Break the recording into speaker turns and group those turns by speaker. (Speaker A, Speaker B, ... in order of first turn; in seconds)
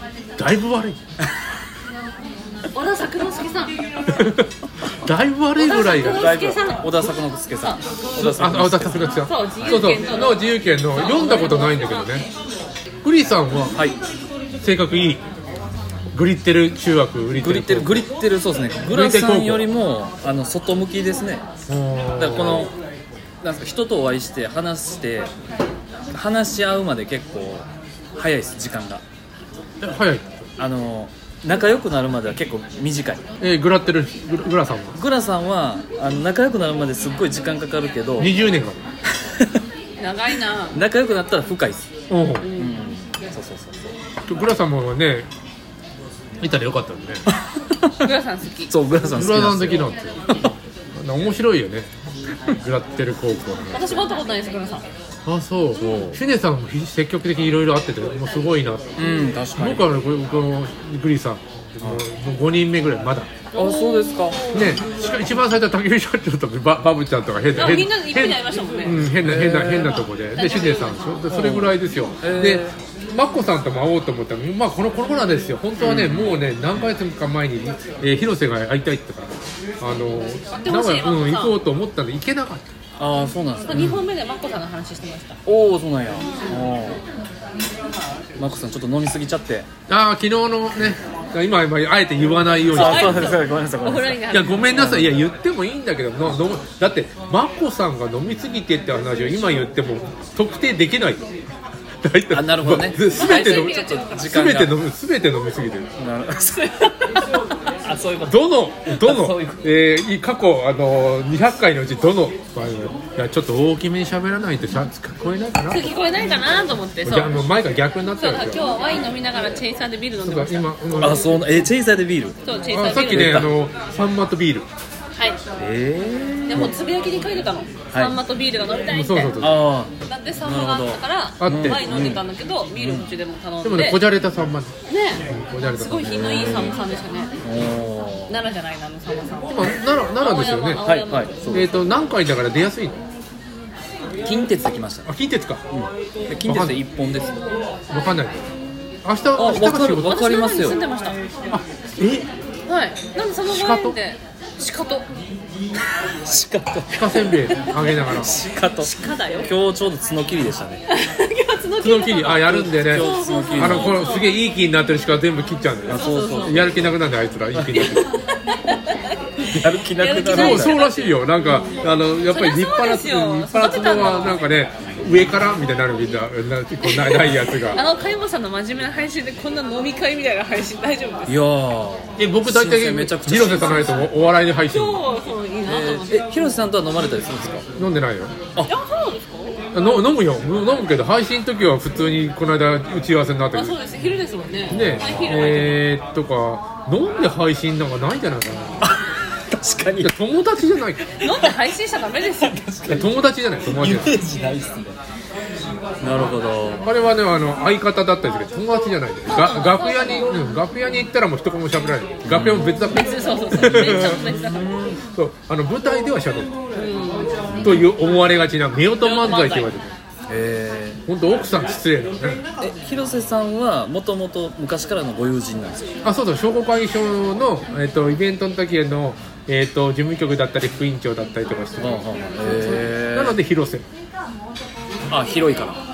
Speaker A: 0.4-1.0, 4.1-4.5, 5.0-6.3, 8.2-12.2, 13.0-13.8, 14.6-15.2, 16.1-18.1, 18.8-19.7, 21.7-22.7, 29.8-30.4, 33.4-35.0, 38.2-38.8, 42.1-42.5, 44.3-45.3, 46.4-47.2, 49.0-50.1, 50.9-51.9, 52.6-54.1, 55.2-59.0, 59.6-63.3, 64.5-82.7, 83.7-84.1, 89.9-93.4, 94.3-101.3, 102.0-105.9, 108.2-115.9, 117.0-118.6, 120.2-121.4, 122.7-124.7, 128.9-129.6, 131.4-131.8, 133.6-134.7, 135.2-136.3, 139.5-140.8, 141.5-143.0, 145.1-145.6, 146.4-146.8, 147.9-148.5, 149.0-150.2, 151.5-152.3, 153.4-154.0, 156.9-158.3, 161.8-168.1, 170.2-177.8, 182.2-185.0, 187.8-188.3, 189.7-193.8, 194.7-198.8, 200.0-201.1, 202.9-204.2, 206.0-214.3, 215.1-216.5, 217.5-219.9, 221.1-222.4, 226.0-233.8
Speaker B: 2.7-3.8, 5.5-7.8, 9.1-12.2, 40.0-40.8, 42.4-42.8, 48.0-48.7, 53.7-54.8, 63.5-64.8, 67.5-69.0, 70.3-71.1, 80.5-81.5, 83.7-85.4, 92.7-94.7, 103.0-104.4, 106.5-107.4, 115.7-117.5, 118.2-121.2, 122.4-123.5, 125.1-125.4, 126.5-129.4, 130.0-134.0, 134.9-137.3, 138.3-141.5, 149.4-151.2, 152.7-155.1, 158.8-159.5, 160.9-164.3, 165.9-166.8, 167.8-171.2, 172.3-174.4, 176.8-181.4, 184.7-186.5, 188.7-189.9, 193.5-195.8, 201.2-202.6, 209.3-210.4, 212.9-214.7, 216.8-217.5, 219.0-219.7
Speaker C: 6.1-9.1, 17.4-21.4, 22.1-22.7, 23.4-25.3, 26.1-29.0, 30.6-33.2, 34.9-38.3, 40.7-41.9, 42.5-43.9, 47.3-48.1, 48.7-50.5, 55.8-56.2, 59.0-59.9, 61.8-62.0, 63.5-64.4, 69.2-70.0, 71.3-72.8, 75.8-76.5, 83.0-83.9, 85.5-87.0, 88.4-89.7, 92.7-95.2, 102.3-104.8, 106.0-106.9, 107.8-109.7, 120.9-122.4, 123.0-123.5, 125.6-126.7, 127.9-128.2, 129.4-132.2, 132.8-133.1, 136.0-136.8, 137.4-138.4, 140.8-141.8, 144.2-145.1, 145.7-147.4, 149.3-150.8, 156.2-160.8, 162.3-164.1, 165.9-166.7, 167.5-167.9, 169.5-170.8, 181.3-184.1, 185.6-187.7, 194.7-195.5, 198.8-200.2, 200.7-201.6, 202.4-205.0, 206.0-206.9, 212.2-212.8, 213.5-215.0, 217.5-217.9, 220.3-221.0, 222.6-225.9, 231.8-233.4, 235.1-235.8